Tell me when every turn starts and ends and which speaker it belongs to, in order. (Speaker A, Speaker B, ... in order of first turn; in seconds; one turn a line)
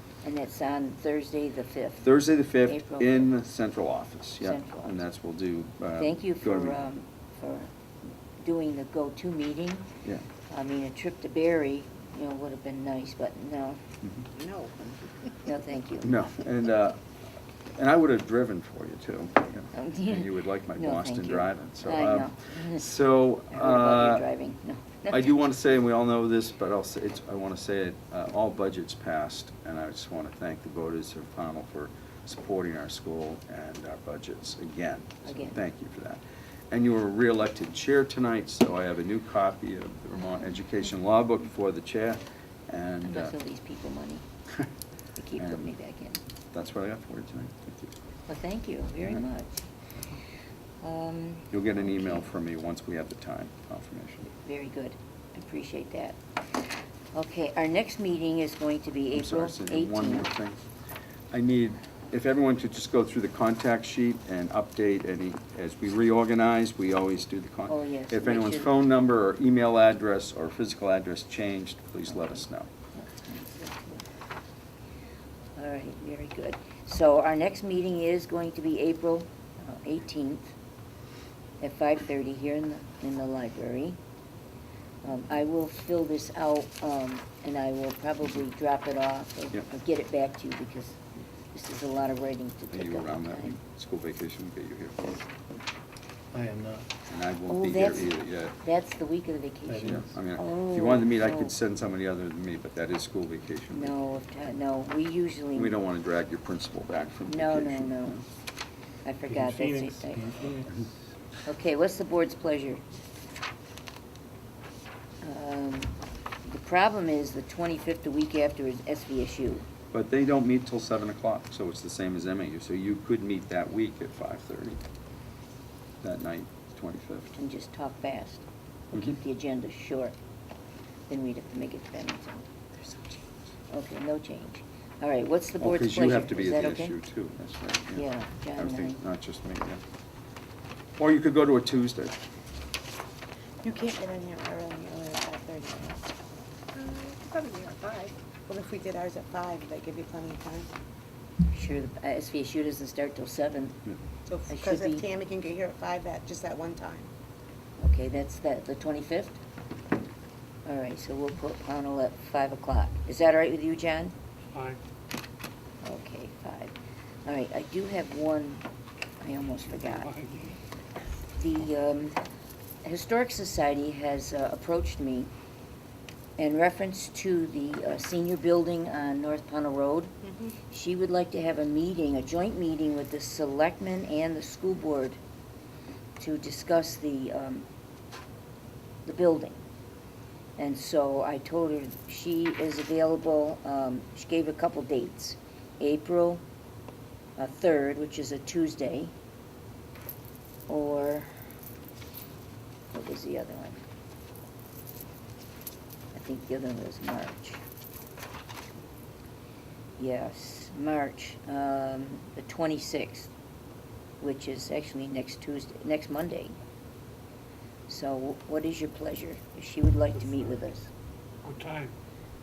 Speaker A: 0.2-2.1
Speaker B: 2.0-6.8
Speaker A: 2.6-3.3
Speaker A: 4.4-5.0
Speaker A: 6.0-7.7
Speaker A: 8.4-9.9
Speaker A: 10.5-13.8
Speaker C: 14.3-15.0
Speaker A: 15.4-16.1
Speaker B: 16.0-17.0
Speaker B: 17.7-24.3
Speaker A: 19.7-22.9
Speaker A: 23.5-25.3
Speaker B: 25.1-43.3
Speaker A: 35.2-35.6
Speaker A: 43.0-44.2
Speaker A: 45.1-46.2
Speaker B: 45.4-45.7
Speaker B: 46.5-47.9
Speaker A: 48.3-49.6
Speaker A: 50.8-52.2
Speaker B: 51.5-54.3
Speaker A: 54.3-56.2
Speaker A: 57.1-60.3
Speaker B: 59.1-60.6
Speaker B: 61.3-72.7
Speaker A: 67.7-68.7
Speaker A: 72.1-72.4
Speaker A: 72.9-74.0
Speaker A: 75.5-80.5
Speaker A: 81.6-84.0
Speaker A: 85.0-91.0
Speaker A: 91.5-93.6
Speaker B: 92.7-95.2
Speaker D: 96.3-96.9
Speaker B: 97.1-98.5
Speaker A: 97.5-101.5
Speaker D: 99.7-100.1
Speaker B: 99.8-103.9
Speaker A: 103.7-105.7
Speaker B: 105.5-108.2
Speaker A: 107.3-108.2
Speaker A: 109.0-110.2
Speaker D: 109.3-110.9
Speaker A: 111.5-112.8
Speaker A: 115.2-119.7
Speaker B: 119.9-124.8
Speaker B: 126.0-127.3
Speaker A: 127.4-130.1
Speaker A: 131.1-132.6
Speaker A: 133.7-136.9
Speaker B: 135.6-139.8
Speaker A: 137.9-139.0
Speaker B: 141.0-142.2
Speaker C: 143.6-150.7
Speaker A: 151.5-153.8
Speaker C: 154.3-157.1
Speaker A: 154.5-155.1
Speaker A: 157.8-159.4
Speaker A: 160.7-164.1
Speaker E: 164.5-164.8
Speaker A: 165.8-166.7
Speaker A: 167.2-168.6
Speaker A: 169.2-170.1
Speaker E: 169.7-170.6
Speaker A: 171.4-172.2
Speaker A: 172.8-175.3
Speaker A: 176.4-180.1
Speaker A: 180.7-185.2
Speaker A: 186.2-187.6
Speaker A: 189.0-189.6
Speaker A: 190.6-196.4
Speaker A: 197.4-199.1
Speaker A: 200.7-201.3
Speaker A: 202.9-203.8
Speaker A: 206.1-207.6
Speaker A: 210.0-213.3
Speaker A: 214.2-216.6
Speaker A: 217.9-220.9
Speaker E: 220.2-220.6
Speaker E: 221.4-221.9